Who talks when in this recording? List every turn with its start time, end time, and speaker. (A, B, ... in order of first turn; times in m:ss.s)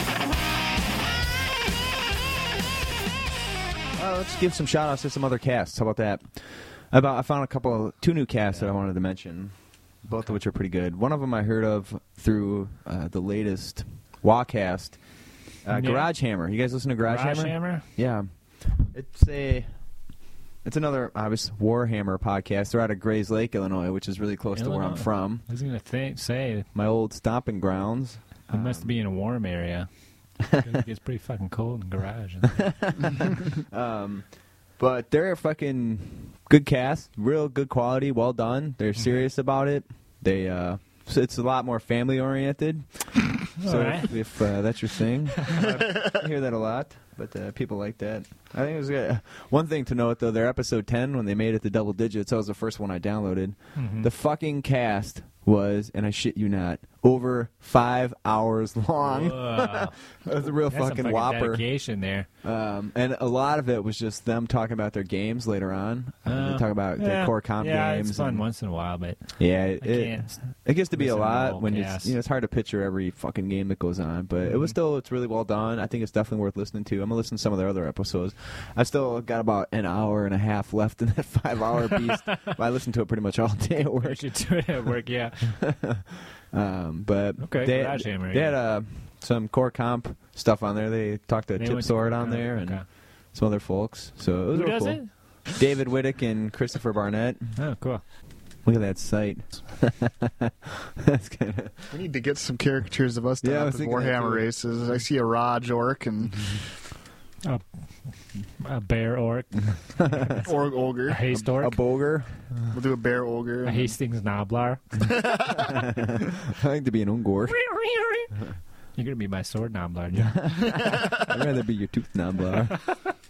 0:04.0-0:15.0 A
0:15.6-0:19.7 A
0:15.7-0:16.1 B
0:17.0-0:17.9 B
0:20.6-0:25.4 A
0:24.6-0:26.7 B
0:26.7-0:28.9 A
0:28.5-0:29.9 B
0:30.4-0:32.7 B
0:32.6-1:01.7 A
0:43.6-0:44.2 B
0:53.8-0:54.1 B
0:59.0-1:00.0 B
1:00.6-1:02.3 B
1:02.4-1:08.4 A
1:06.2-1:12.1 B
1:09.4-1:24.2 A
1:14.4-1:14.8 B
1:24.0-1:25.6 B
1:25.6-1:37.5 A
1:27.4-1:28.5 B
1:31.6-1:32.8 B
1:34.5-1:35.1 B
1:37.6-1:38.0 B
1:38.6-1:41.9 A
1:41.9-1:46.6 C
1:43.4-1:44.4 A
1:48.6-1:50.5 B
1:50.0-1:50.4 A
1:50.4-1:51.2 C
1:51.1-1:51.8 B
1:51.3-1:52.5 A
1:52.7-1:53.9 C
1:53.6-1:54.8 B
1:55.1-1:55.6 C
1:55.6-1:57.6 A
1:57.5-1:58.3 B
1:58.9-2:00.8 B
2:00.2-2:02.9 A